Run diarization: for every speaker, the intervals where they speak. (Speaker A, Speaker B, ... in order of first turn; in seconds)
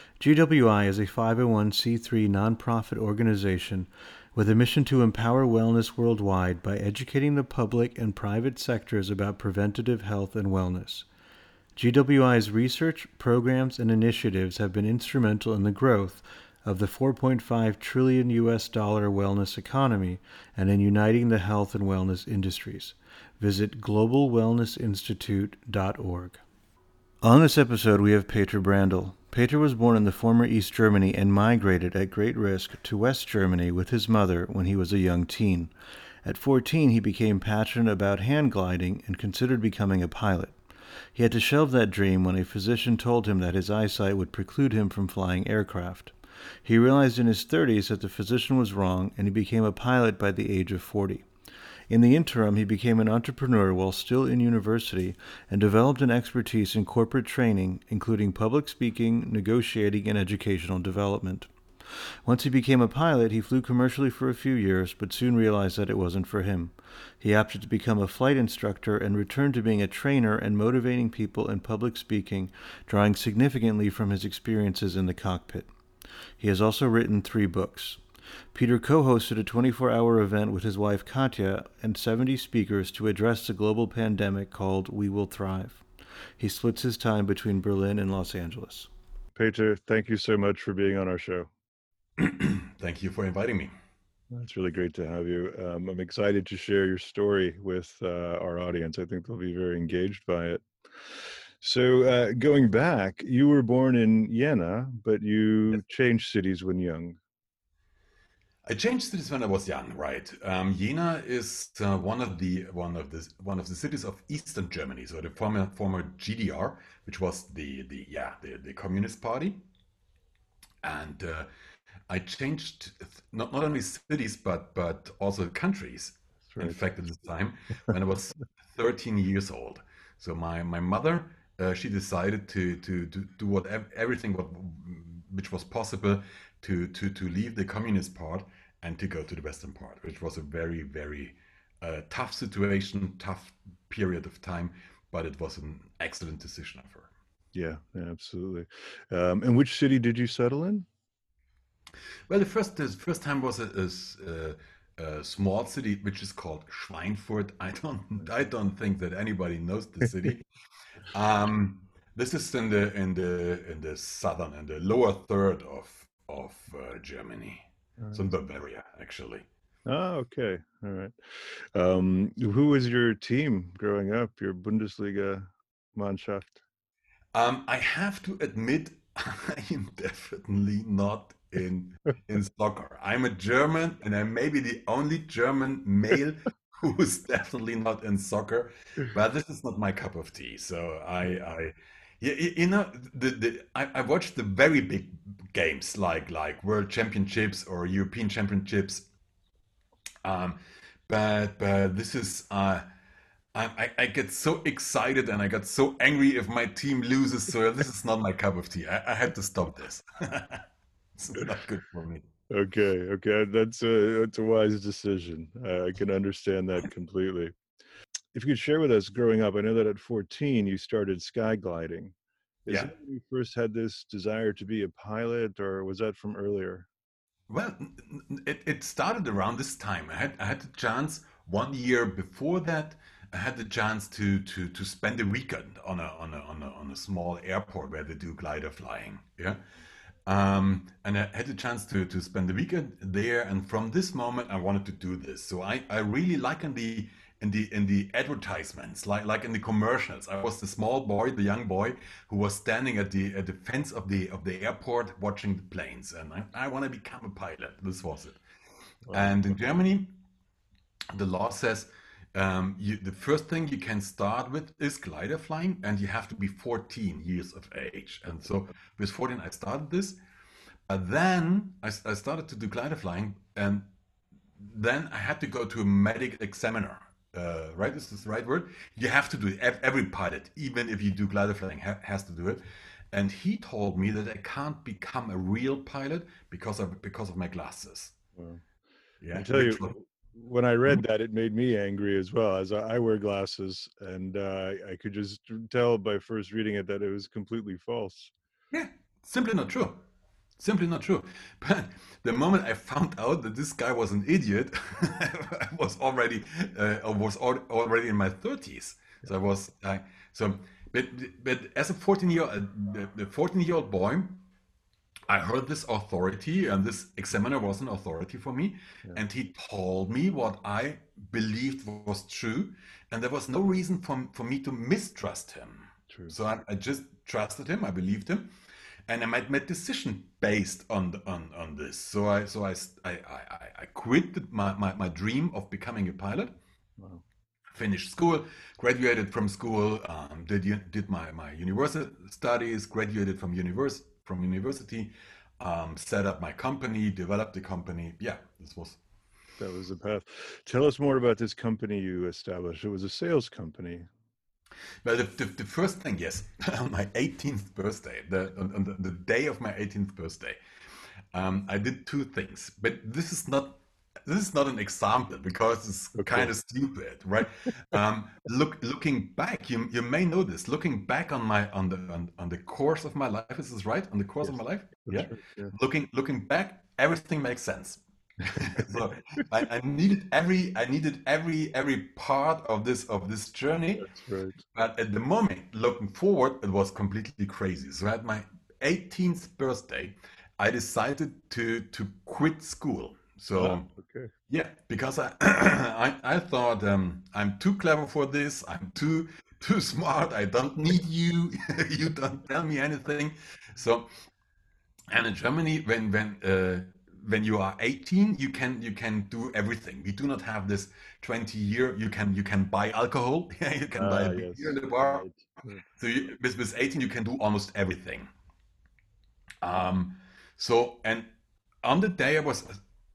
Speaker A: 0.2-11.1, 11.8-26.4, 27.2-40.6, 41.1-51.3, 51.9-75.7, 76.4-78.0, 78.5-85.8, 86.4-88.9
Speaker B: 89.4-91.5, 94.3-107.2, 126.5-126.8, 147.5-150.9, 169.9-176.6, 212.5-217.6, 218.3-222.2, 222.7-226.9, 259.1-259.5, 288.4-288.6, 289.3-298.3, 326.1-326.4, 337.0-337.2, 349.6-354.1, 366.2-366.5, 375.1-375.7, 378.6-378.8, 384.0-384.6, 393.6-394.3, 413.9-415.8
Speaker C: 92.2-93.7, 108.7-119.6, 120.8-121.5, 122.1-147.1, 152.3-160.4, 161.1-169.5, 177.3-199.1, 200.2-202.9, 203.5-210.7, 211.2-212.3, 227.5-239.6, 240.3-258.4, 259.1-260.1, 261.1-270.2, 270.9-273.9, 274.6-288.1, 289.2-290.0, 298.7-300.0, 300.6-314.4, 315.3-328.5, 329.1-336.6, 337.7-349.0, 355.0-360.6, 361.3-384.1, 384.7-393.9, 394.5-404.1, 405.1-415.3, 415.9-418.3, 419.6-421.3, 421.8-422.8